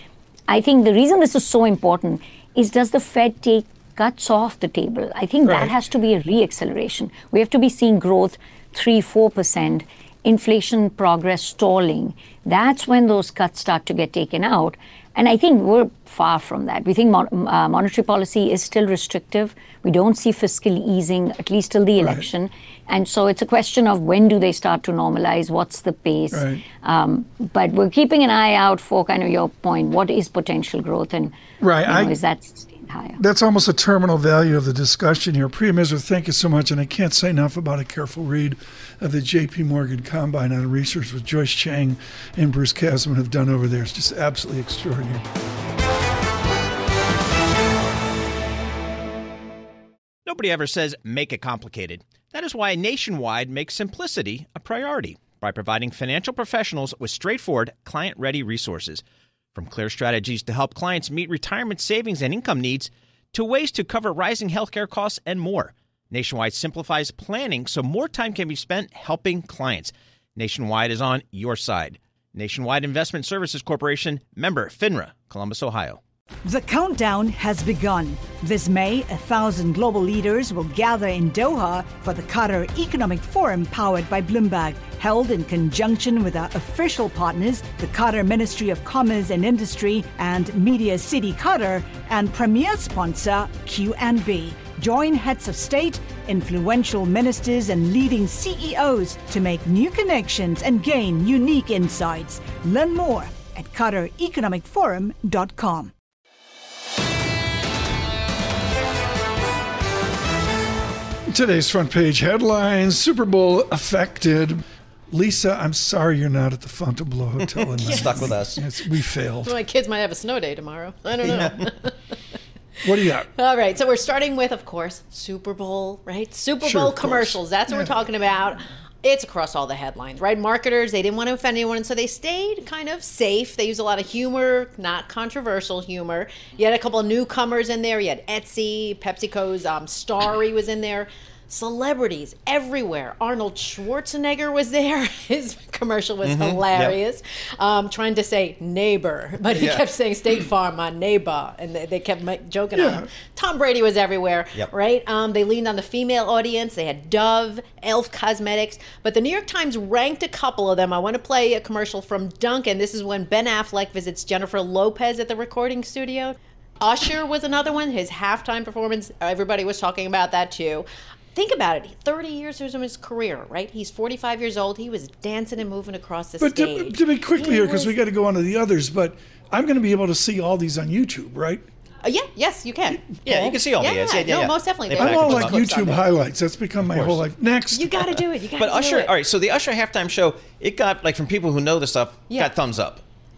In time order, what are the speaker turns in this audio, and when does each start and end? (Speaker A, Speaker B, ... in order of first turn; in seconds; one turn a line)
Speaker A: 0.5-31.3
Speaker B: 5.5-5.7
Speaker B: 22.0-22.2
Speaker B: 26.3-26.6
Speaker B: 31.6-32.1
Speaker A: 31.8-33.2
Speaker B: 33.2-45.2
Speaker C: 50.2-59.0
Speaker C: 59.5-76.0
Speaker D: 76.4-105.9
Speaker B: 111.3-119.6
Speaker C: 117.4-118.6
Speaker E: 117.8-118.4
Speaker E: 119.4-122.0
Speaker C: 121.2-121.7
Speaker B: 122.8-123.3
Speaker E: 123.3-177.9
Speaker B: 126.6-127.9
Speaker C: 146.2-147.0
Speaker C: 149.4-149.8
Speaker B: 152.7-153.0
Speaker B: 176.4-181.7
Speaker E: 182.0-186.1
Speaker C: 183.2-185.6
Speaker B: 185.0-188.0
Speaker C: 186.9-187.2
Speaker E: 187.7-189.1
Speaker C: 187.9-193.0
Speaker E: 192.3-192.5